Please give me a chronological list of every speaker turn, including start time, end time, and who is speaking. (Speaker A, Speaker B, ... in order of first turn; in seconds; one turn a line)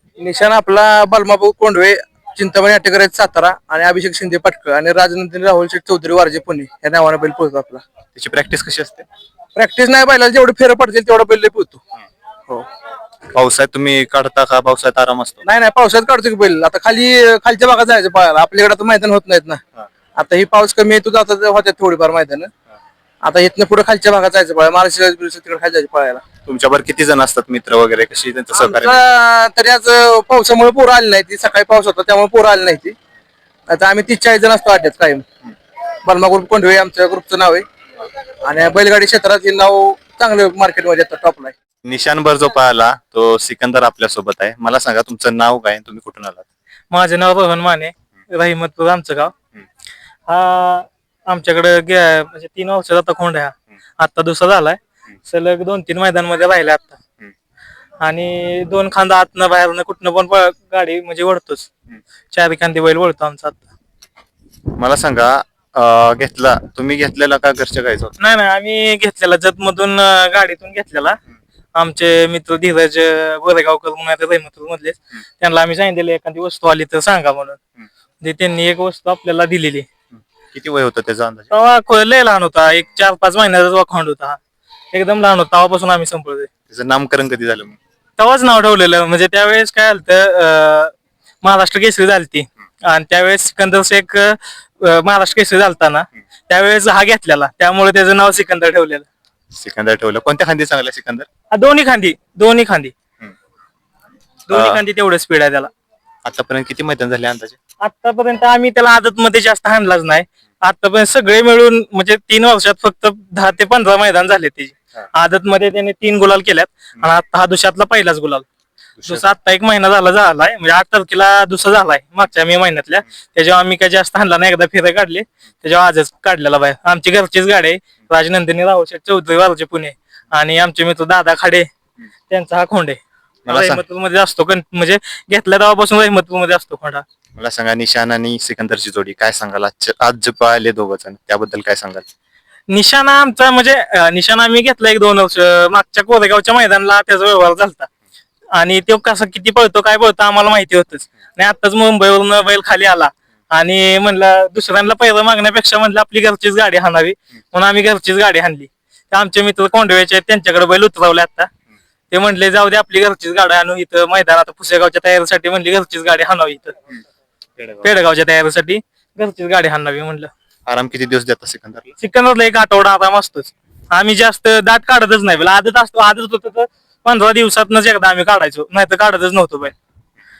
Speaker A: 0.2-7.8
Speaker B: 8.2-9.0
Speaker A: 9.6-11.8
Speaker B: 13.3-15.4
Speaker A: 15.4-19.6
Speaker A: 20.1-22.5
Speaker A: 23.2-26.2
Speaker B: 26.4-29.0
Speaker A: 28.5-32.9
Speaker A: 33.7-35.2
Speaker A: 36.0-37.6
Speaker A: 38.4-41.5
Speaker B: 41.9-46.4
Speaker C: 46.9-49.3
Speaker C: 50.3-57.0
Speaker C: 58.0-61.7
Speaker C: 62.3-63.6
Speaker B: 64.8-68.1
Speaker C: 68.2-71.2
Speaker C: 71.7-77.6
Speaker C: 78.2-79.8
Speaker B: 80.5-81.5
Speaker C: 81.5-84.4
Speaker C: 84.9-86.5
Speaker B: 86.7-87.8
Speaker C: 88.2-99.0
Speaker B: 99.5-101.3
Speaker C: 101.5-102.9
Speaker C: 104.5-105.7
Speaker B: 104.5-104.8
Speaker B: 106.2-107.6
Speaker C: 107.8-118.4
Speaker C: 119.0-131.7
Speaker C: 132.3-137.0
Speaker B: 133.5-133.8
Speaker B: 137.4-142.1
Speaker C: 142.7-147.9
Speaker C: 148.6-161.5
Speaker C: 162.1-166.7
Speaker B: 167.6-167.8
Speaker C: 167.8-170.3
Speaker B: 170.7-171.9
Speaker C: 172.0-179.7